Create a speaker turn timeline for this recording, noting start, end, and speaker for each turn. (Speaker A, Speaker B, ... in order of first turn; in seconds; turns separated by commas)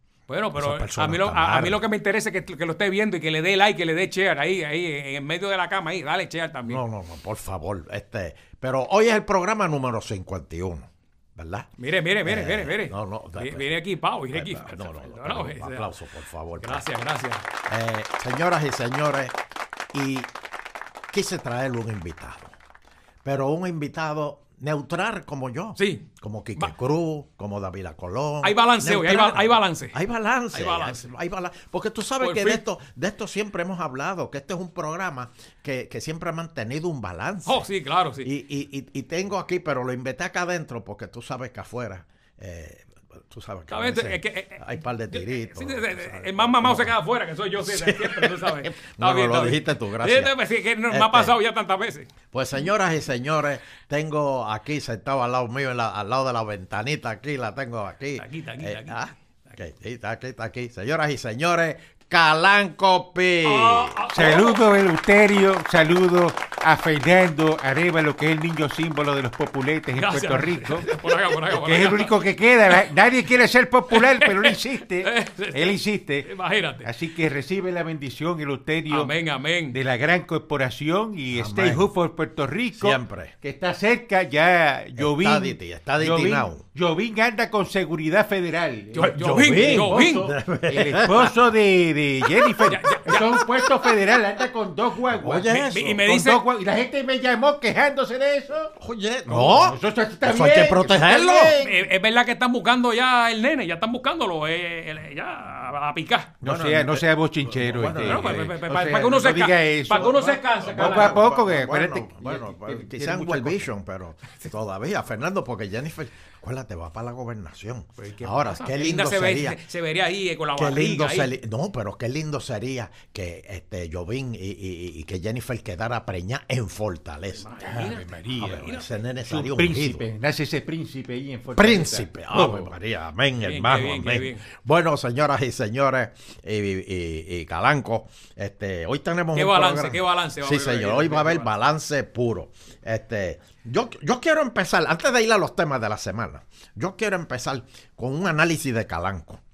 Speaker A: 0.3-6.8, Speaker B: 0.6-1.8, Speaker B: 6.7-11.7, Speaker A: 11.8-15.9, Speaker B: 12.2-13.7, Speaker B: 14.3-16.9, Speaker A: 16.6-17.4, Speaker B: 17.7-19.4, Speaker B: 19.9-20.3, Speaker B: 21.1-22.5, Speaker B: 23.2-37.6, Speaker A: 25.8-26.7, Speaker A: 28.4-30.0, Speaker A: 30.5-31.1, Speaker A: 32.2-32.6, Speaker A: 37.5-38.3, Speaker B: 38.2-47.0, Speaker A: 43.7-52.1, Speaker B: 47.6-50.4, Speaker B: 50.9-51.3, Speaker B: 52.3-64.0, Speaker A: 58.2-59.6, Speaker A: 63.4-64.7, Speaker C: 64.1-70.9, Speaker A: 70.0-72.1, Speaker C: 71.5-76.3, Speaker A: 73.9-76.9, Speaker C: 76.8-79.1, Speaker A: 78.9-79.8, Speaker C: 79.7-95.5, Speaker B: 81.3-81.9, Speaker B: 82.8-83.3, Speaker B: 85.0-86.6, Speaker A: 88.9-90.3, Speaker B: 89.0-91.3, Speaker A: 92.6-93.4, Speaker B: 95.1-96.0, Speaker A: 95.5-96.4, Speaker C: 96.0-98.7, Speaker B: 98.8-101.6, Speaker C: 99.3-101.8, Speaker A: 101.6-106.3, Speaker C: 106.4-113.7, Speaker B: 106.4-108.5, Speaker A: 108.0-111.3, Speaker B: 110.6-119.6, Speaker A: 118.0-121.3, Speaker B: 120.6-127.5, Speaker A: 127.4-128.9, Speaker C: 127.6-128.7, Speaker B: 128.4-130.0, Speaker C: 129.2-132.7, Speaker B: 131.6-149.4, Speaker A: 133.4-134.4, Speaker A: 139.3-141.5